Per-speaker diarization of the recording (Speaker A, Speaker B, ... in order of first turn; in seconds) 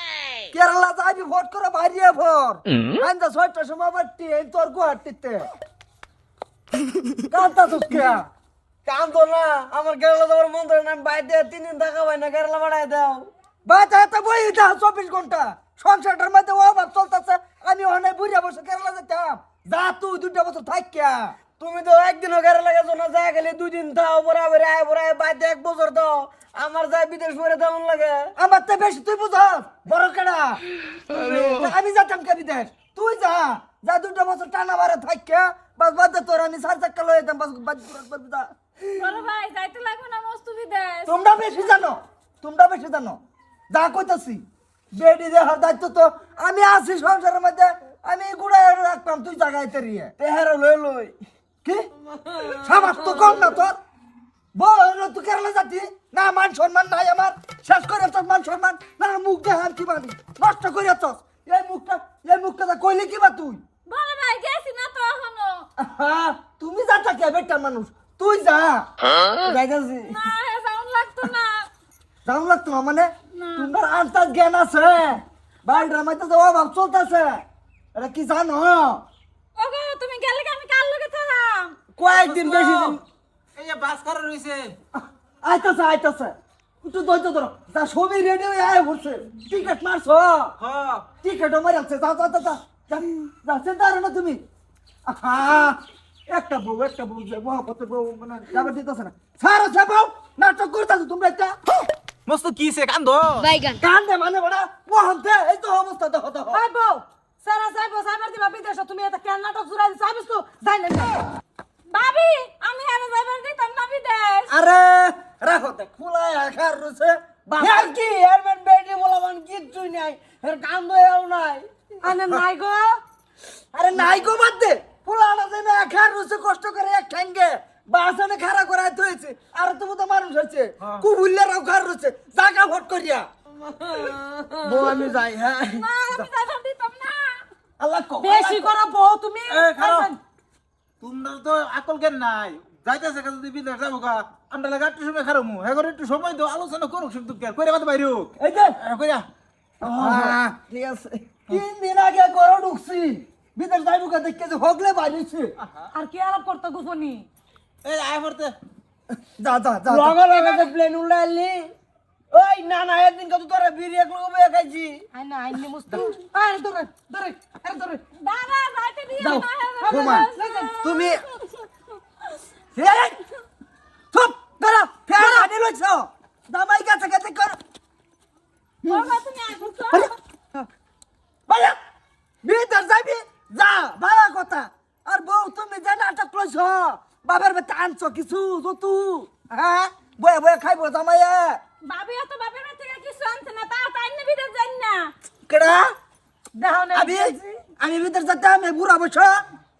Speaker A: 0.5-5.5, 7.3-8.2, 13.7-21.3, 28.4-38.5, 41.0-43.2, 43.7-50.1, 52.6-53.8, 54.5-63.6, 65.8-70.2, 72.2-77.4, 77.9-79.0, 85.0-90.5, 91.2-94.4, 95.1-95.8, 96.3-101.5, 103.7-106.6, 114.5-117.9, 123.7-133.3, 134.7-135.2, 137.8-138.7, 148.4-148.8, 149.8-155.5, 159.4-160.2, 169.2-170.3, 170.8-171.2, 172.7-173.2, 174.1-177.6, 178.8-179.1, 179.6-180.6, 181.5-181.8, 182.4-191.6, 195.5-195.9, 196.9-199.4
Speaker B: 8.8-13.3, 21.6-28.3, 50.2-51.1, 52.2-53.5, 82.0-83.0, 117.6-121.7, 133.6-135.8, 159.9-161.7, 162.3-165.1
Speaker C: 39.0-41.5, 63.9-65.7, 70.1-71.7, 73.3-73.7, 79.5-81.8, 111.9-114.5, 135.8-137.4, 168.1-171.7, 178.9-180.1, 191.8-195.1
Speaker D: 82.1-83.0, 83.5-84.8, 90.6-91.1, 102.3-103.5, 139.5-140.1, 141.0-149.3, 157.8-158.6
Speaker E: 106.5-111.2, 122.0-123.0, 138.2-140.2, 155.9-157.2, 165.1-168.0, 169.8-170.7, 175.1-175.5, 196.5-197.6